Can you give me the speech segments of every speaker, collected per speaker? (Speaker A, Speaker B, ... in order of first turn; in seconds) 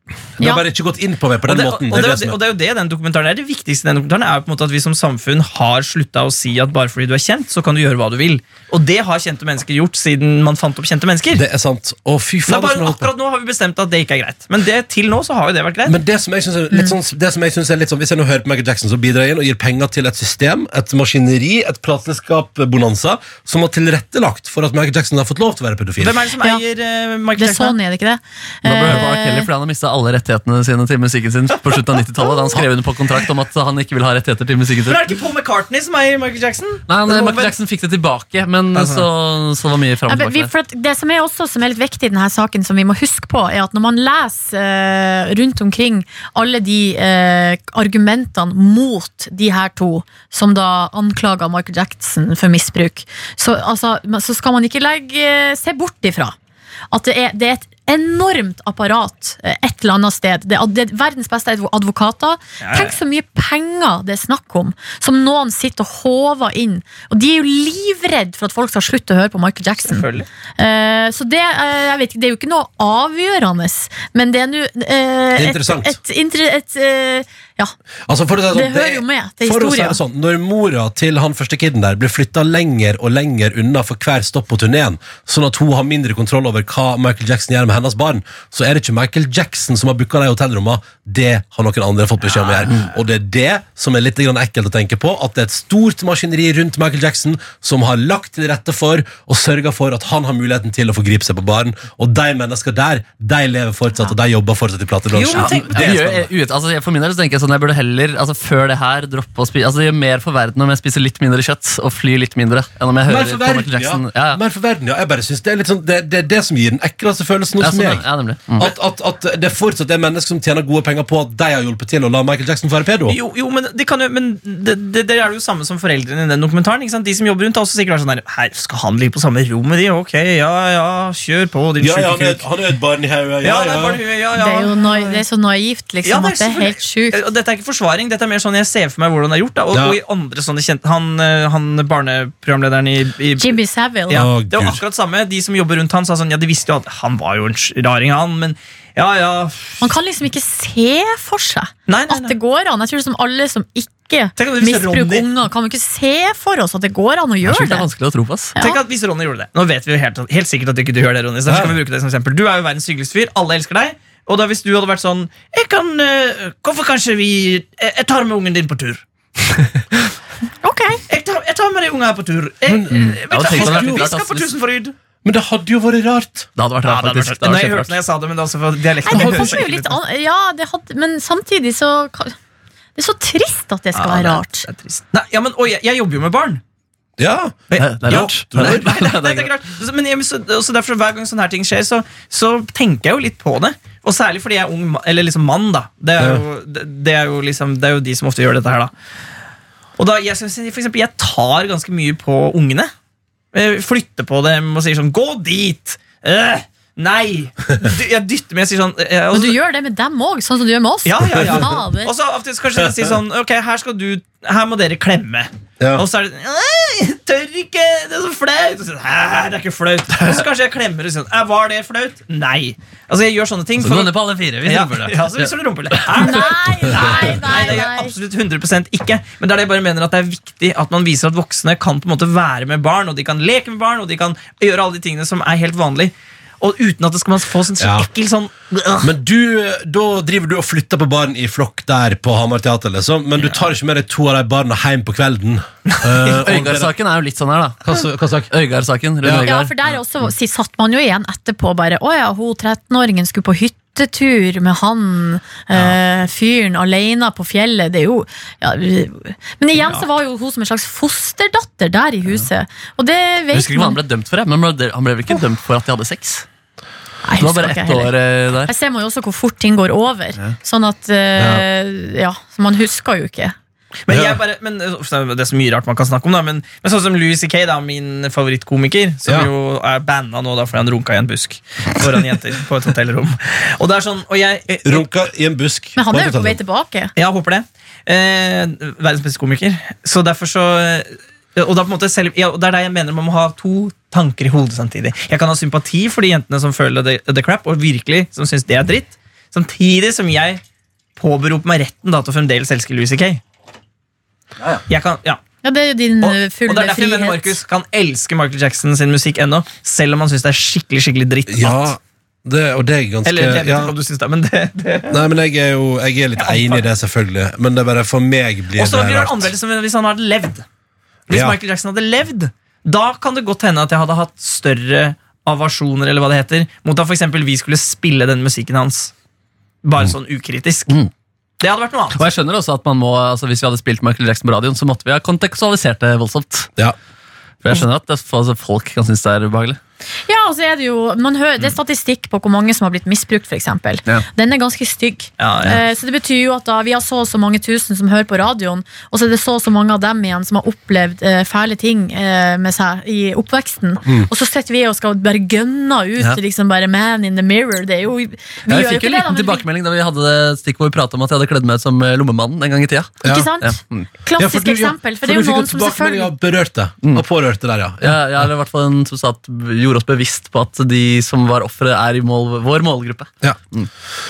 Speaker A: 0.4-0.6, 27.4-29.5, 40.1-56.3, 56.9-70.1, 70.6-77.7, 78.5-80.0, 134.3-137.2, 143.4-144.3, 149.8-157.9, 170.6-171.0, 179.0-182.3, 183.0-184.7, 209.3-212.1, 226.2-228.1, 249.4-264.0, 267.2-273.5, 285.9-287.1, 305.6-307.6, 340.3-359.6, 363.2-366.3
Speaker B: 0.4-2.4, 11.3-13.1, 15.8-26.2, 75.3-76.0, 78.1-106.3, 113.0-118.0, 118.6-123.2, 131.8-134.0, 139.7-140.0, 144.1-144.8, 161.4-161.8, 172.7-174.1, 175.2-176.5, 179.1-179.6, 187.2-188.9, 196.2-196.4, 215.8-216.0, 237.8-238.1, 239.0-246.9, 247.8-248.5, 249.2-249.5, 271.4-271.6, 274.1-274.4, 284.8-286.6, 311.5-313.9, 315.1-319.5, 321.3-321.6, 363.2-363.5, 364.4-368.5
Speaker C: 1.4-11.4, 12.5-16.0, 26.0-27.8, 34.8-37.5, 38.7-39.1, 62.6-63.0, 69.8-70.3, 92.2-92.9, 105.1-106.1, 123.1-132.4, 133.4-135.2, 136.0-149.8, 151.9-152.3, 154.4-155.3, 158.6-169.0, 171.1-174.9, 176.8-180.0, 183.9-186.6, 187.7-198.9, 200.0-202.9, 203.5-209.6, 211.0-239.1, 245.9-246.3, 274.1-285.1, 287.1-300.6, 301.2-303.4, 304.9-305.4, 306.2-311.9, 313.2-315.2, 316.4-316.9, 318.8-320.6, 321.3-329.1, 329.8-330.9, 331.6-332.2, 345.4-345.8
Speaker D: 28.6-35.0, 36.9-40.5, 105.3-114.4, 117.6-118.7, 157.4-158.5, 172.9-174.5, 176.6-177.9, 187.8-189.5, 223.8-225.5, 246.4-248.0, 248.5-249.7, 263.5-266.4, 267.4-268.7, 332.1-336.7, 337.6-339.8, 358.7-364.1, 368.0-373.9